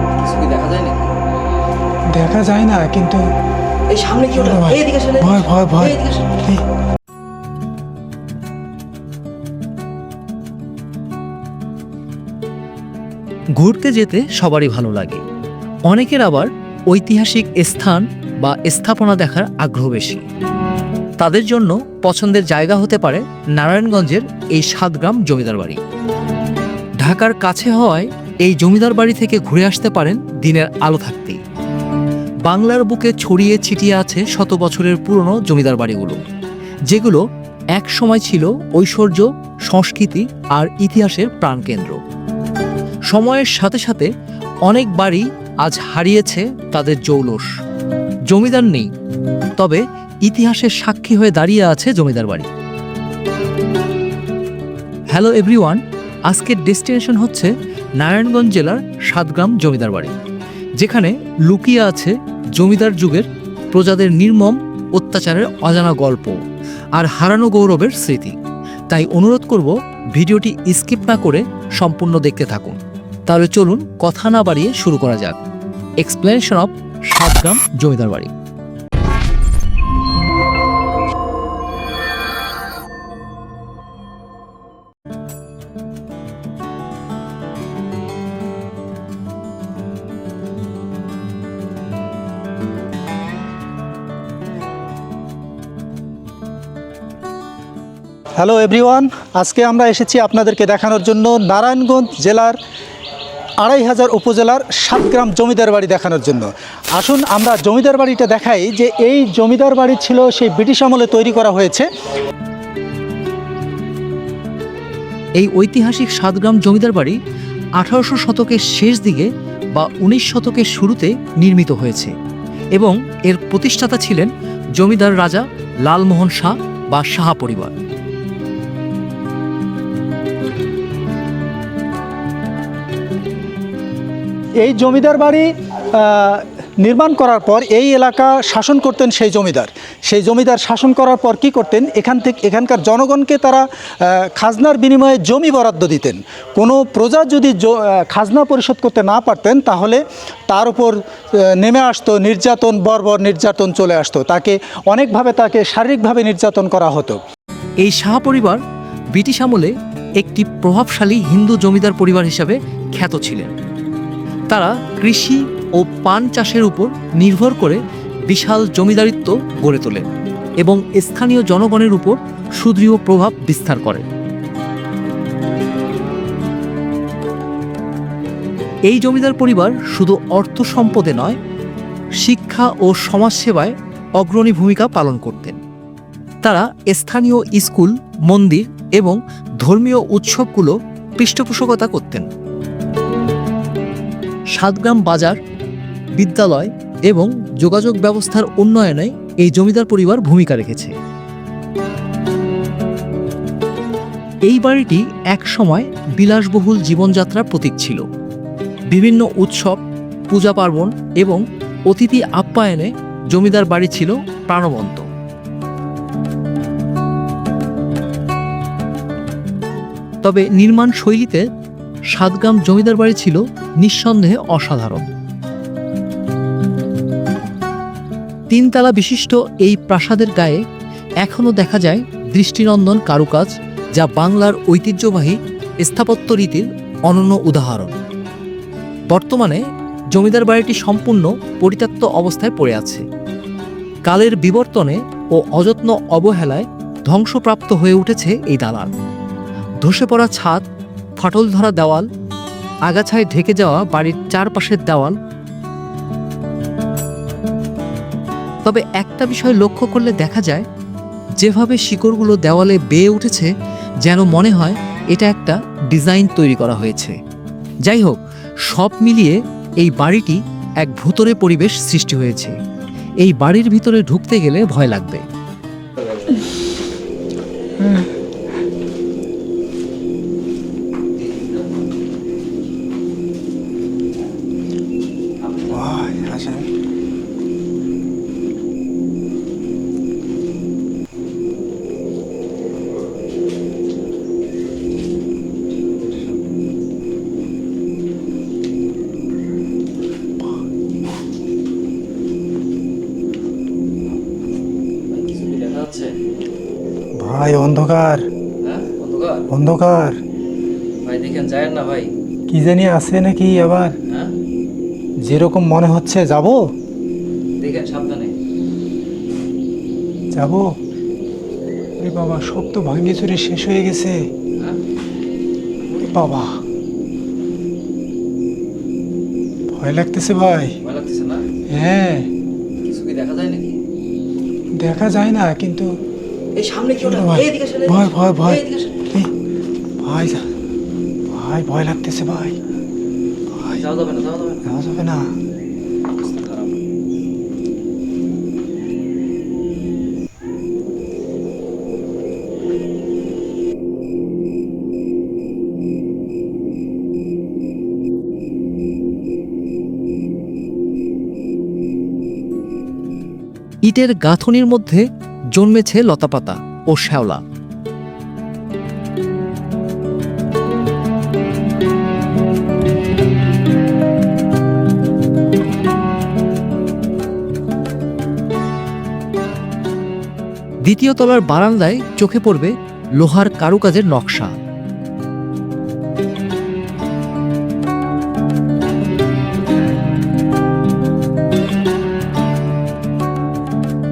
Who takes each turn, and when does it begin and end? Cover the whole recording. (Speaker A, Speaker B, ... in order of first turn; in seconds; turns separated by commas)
Speaker A: 0.2-1.1, Speaker B: 2.1-3.2, Speaker C: 3.9-6.1, Speaker B: 4.3-6.6, Speaker A: 13.6-15.2, Speaker A: 15.9-20.2, Speaker A: 21.2-25.8, Speaker A: 27.0-31.4, Speaker A: 32.4-36.2, Speaker A: 36.9-37.2, Speaker A: 37.7-42.0, Speaker A: 43.1-44.1, Speaker A: 44.7-47.5, Speaker A: 48.3-48.9, Speaker A: 49.6-52.5, Speaker A: 55.1-60.1, Speaker A: 60.8-66.4, Speaker A: 66.9-68.3, Speaker A: 68.9-75.4, Speaker A: 76.0-78.3, Speaker B: 98.4-102.5, Speaker B: 103.6-111.8, Speaker A: 115.4-117.2, Speaker A: 117.8-122.1, Speaker A: 122.7-127.7, Speaker B: 134.6-150.9, Speaker B: 151.6-157.2, Speaker A: 157.8-158.6, Speaker A: 159.1-163.5, Speaker A: 164.5-170.1, Speaker A: 170.6-174.0, Speaker A: 178.9-181.4, Speaker A: 182.2-185.6, Speaker A: 186.4-192.3, Speaker A: 194.5-195.4, Speaker A: 196.1-200.9, Speaker A: 204.5-208.0, Speaker A: 208.9-209.8, Speaker A: 210.3-215.0, Speaker A: 220.2-221.4, Speaker A: 222.1-225.1, Speaker A: 228.5-230.6, Speaker A: 231.2-237.9, Speaker A: 239.1-239.6, Speaker A: 240.1-243.0, Speaker A: 244.1-248.9, Speaker A: 249.8-250.6, Speaker A: 251.2-252.1, Speaker A: 252.9-255.2, Speaker A: 258.6-260.6, Speaker A: 261.4-263.5, Speaker A: 264.0-267.1, Speaker A: 267.8-272.5, Speaker A: 273.2-275.2, Speaker B: 277.8-278.1, Speaker B: 285.7-286.7, Speaker A: 305.1-306.1, Speaker B: 307.2-308.2, Speaker C: 308.7-309.4, Speaker A: 308.9-309.3, Speaker B: 309.5-310.2, Speaker A: 311.0-312.1, Speaker B: 312.5-313.9, Speaker B: 315.2-316.6, Speaker A: 317.6-318.3, Speaker B: 320.3-320.7, Speaker B: 322.0-324.2, Speaker B: 326.0-326.5, Speaker B: 329.7-330.7, Speaker C: 330.8-331.4, Speaker A: 330.9-331.4, Speaker B: 331.7-332.3, Speaker A: 332.9-333.7, Speaker B: 334.8-335.9, Speaker A: 336.6-337.9, Speaker C: 336.6-338.6, Speaker B: 337.0-339.3, Speaker B: 340.0-340.4, Speaker B: 341.3-342.6, Speaker C: 343.8-344.6, Speaker B: 344.6-345.3, Speaker A: 363.8-367.4, Speaker A: 380.8-384.5